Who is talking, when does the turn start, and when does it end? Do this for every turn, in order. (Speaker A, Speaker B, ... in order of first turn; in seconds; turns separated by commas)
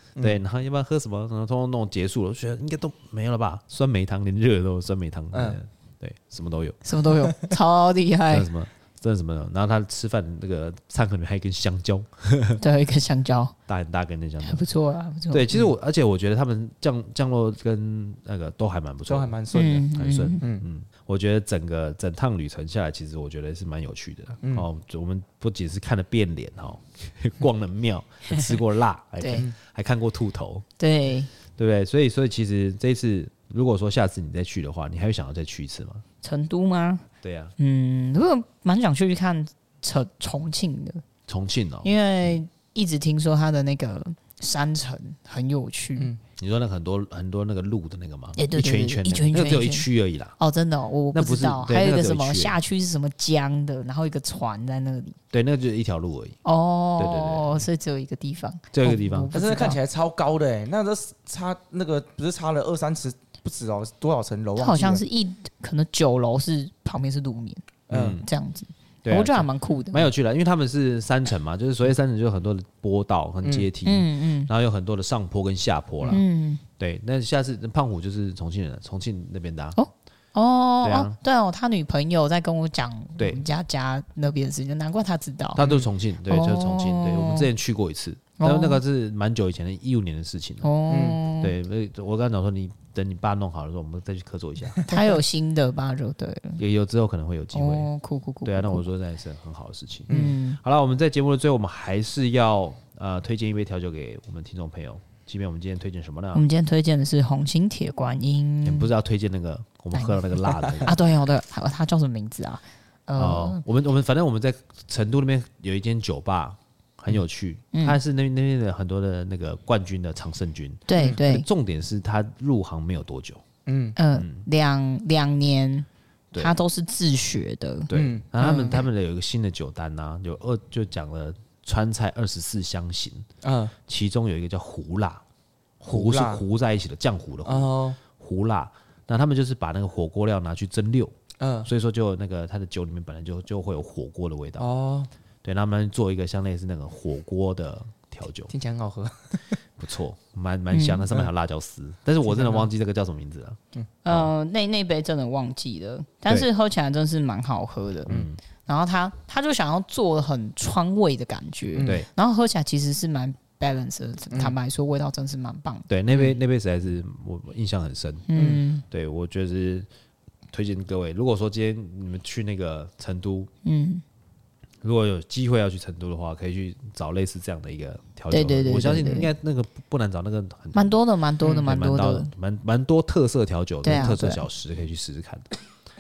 Speaker A: 0.2-6.8, Speaker B: 5.3-5.6, Speaker C: 6.8-8.5, Speaker A: 8.3-12.6, Speaker C: 12.6-13.5, Speaker A: 13.7-14.7, Speaker C: 14.4-15.5, Speaker A: 15.3-30.6, Speaker B: 19.1-19.9, Speaker C: 19.5-20.4, Speaker B: 20.4-20.6, Speaker C: 29.2-29.4, Speaker C: 30.8-31.3, Speaker A: 31.6-36.0, Speaker C: 36.2-37.0, Speaker A: 37.2-37.5, Speaker C: 37.6-41.0, Speaker A: 41.3-41.9, Speaker C: 41.8-46.1, Speaker A: 46.4-50.4, Speaker C: 48.4-55.2, Speaker A: 51.1-52.5, Speaker A: 55.3-56.4, Speaker C: 56.4-59.8, Speaker A: 57.0-57.6, Speaker A: 58.7-59.3, Speaker B: 59.3-65.0, Speaker C: 64.6-70.1, Speaker B: 67.9-68.2, Speaker A: 67.9-68.2, Speaker A: 69.0-76.2, Speaker B: 73.4-73.7, Speaker C: 73.8-74.5, Speaker C: 76.0-76.6, Speaker A: 76.8-79.8, Speaker C: 79.8-85.6, Speaker A: 80.8-81.2, Speaker A: 85.5-90.7, Speaker B: 85.6-85.9, Speaker C: 86.3-87.5, Speaker C: 88.4-88.8, Speaker C: 90.6-91.5, Speaker B: 90.9-91.2, Speaker A: 91.4-94.8, Speaker C: 94.8-96.6, Speaker A: 96.6-97.9, Speaker C: 97.5-98.8, Speaker A: 98.4-106.4, Speaker C: 100.1-100.6, Speaker B: 100.1-100.4, Speaker C: 106.3-108.9, Speaker A: 108.6-111.0, Speaker C: 109.9-113.6, Speaker A: 113.2-123.4, Speaker C: 117.7-118.0, Speaker C: 120.9-121.5, Speaker B: 123.7-124.0, Speaker C: 124.0-128.8, Speaker A: 124.1-124.5, Speaker A: 127.9-133.3, Speaker B: 127.9-128.6, Speaker B: 133.4-133.7, Speaker A: 133.9-135.2, Speaker A: 135.8-141.1, Speaker B: 135.9-136.4, Speaker B: 137.4-138.0, Speaker B: 141.4-141.7, Speaker A: 141.6-144.7, Speaker B: 144.6-145.1, Speaker A: 145.4-148.5, Speaker B: 148.5-149.6, Speaker A: 149.8-154.3, Speaker C: 150.7-151.1, Speaker B: 152.3-152.7, Speaker C: 154.0-165.9, Speaker A: 158.1-158.4, Speaker B: 161.8-162.0, Speaker A: 165.9-168.3, Speaker C: 168.3-168.8, Speaker B: 168.4-168.6, Speaker A: 168.9-169.9, Speaker A: 170.5-173.5, Speaker C: 173.6-174.0, Speaker A: 174.8-185.5, Speaker C: 178.3-179.3, Speaker C: 180.7-182.3, Speaker C: 183.8-184.4